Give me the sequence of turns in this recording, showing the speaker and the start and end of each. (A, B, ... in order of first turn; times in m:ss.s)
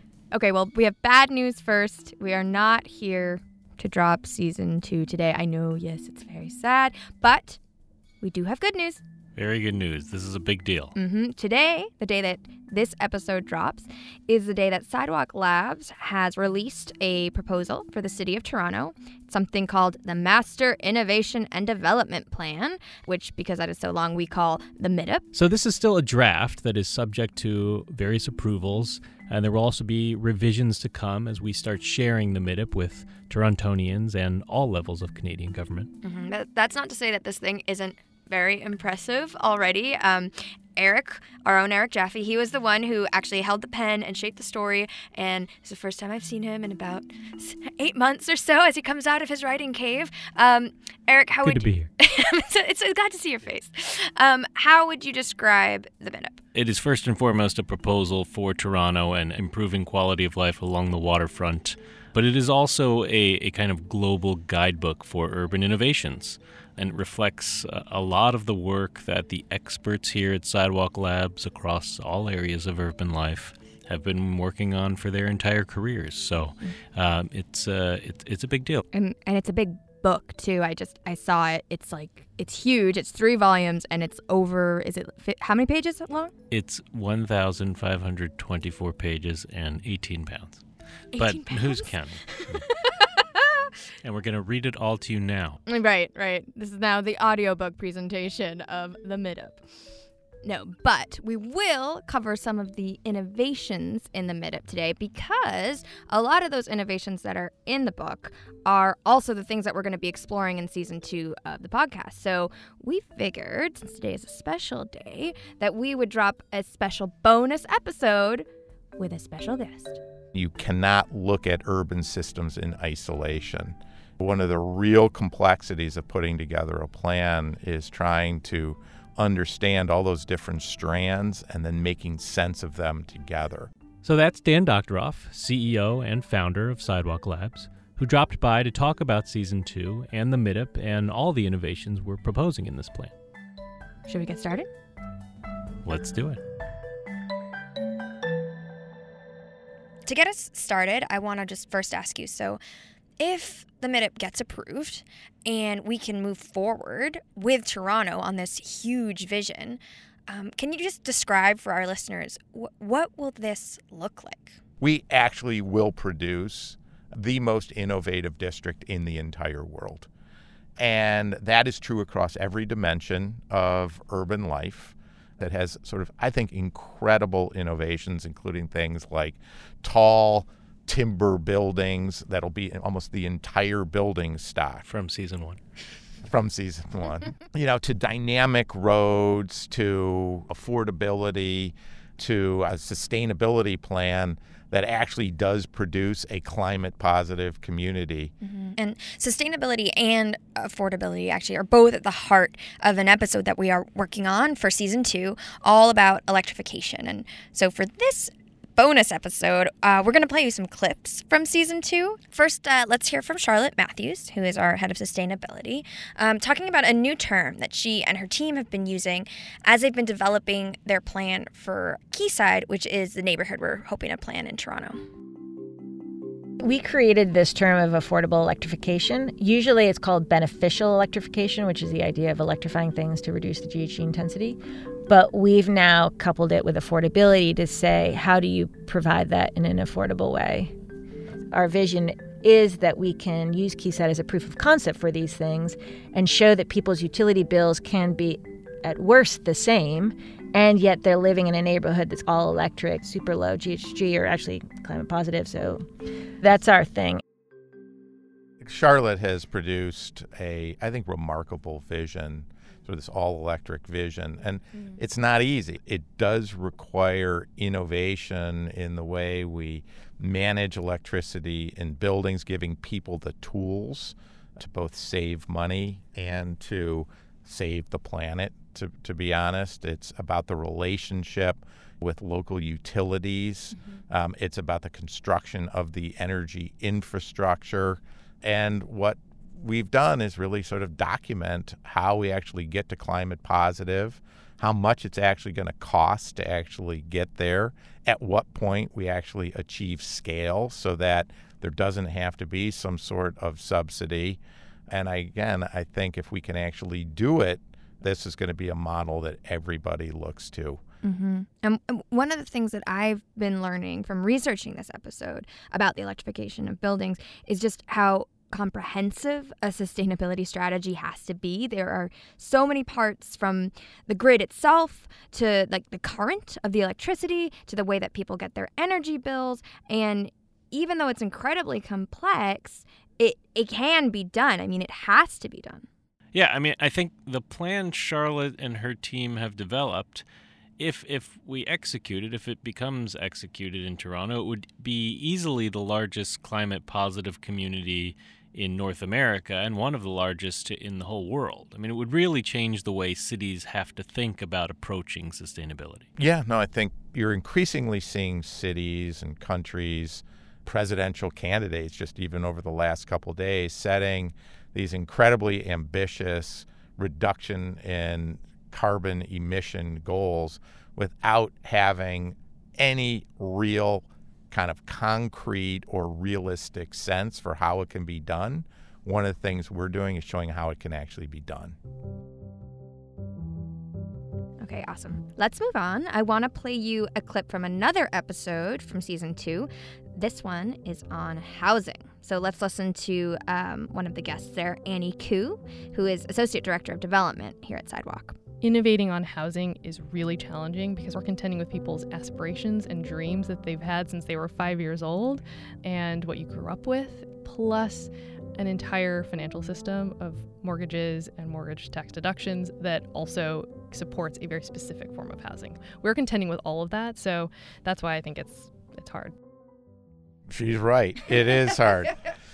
0:00.3-0:07.6 A
0:08.2-0:09.0 A
0:09.4-0:10.9 B
0:11.0-0:25.2 A
0:25.3-0:35.9 B
0:36.0-0:56.4 A
0:51.4-0:51.9 B
0:56.6-1:18.8 B
1:18.9-1:26.3 A
1:26.5-1:30.6 B
1:31.1-1:33.7 A
1:31.2-1:32.6 B
1:34.0-1:35.6 B
1:35.7-1:39.7 A
1:40.4-1:58.4 A
1:59.0-2:00.0 A
2:00.4-2:13.7 C
2:14.0-2:23.1 B
2:24.1-2:24.7 A
2:25.8-2:26.4 B
2:30.1-2:32.6 A
2:33.2-2:44.6 A
2:44.8-2:50.1 C
2:50.8-3:04.9 C
3:04.8-3:05.6 B
3:06.3-3:18.3 C
3:18.4-3:45.0 A
3:46.6-3:54.6 D
3:55.1-4:00.7 D
4:01.5-4:15.8 D
4:16.4-4:17.2 D
4:18.6-5:04.4 C
5:04.9-5:10.8 C
5:11.0-5:35.9 A
5:36.3-5:40.2 B
5:40.8-5:56.1 B
5:56.2-6:21.8 C
6:24.6-6:38.4 A
6:38.6-6:59.3 E
7:00.5-7:02.2 C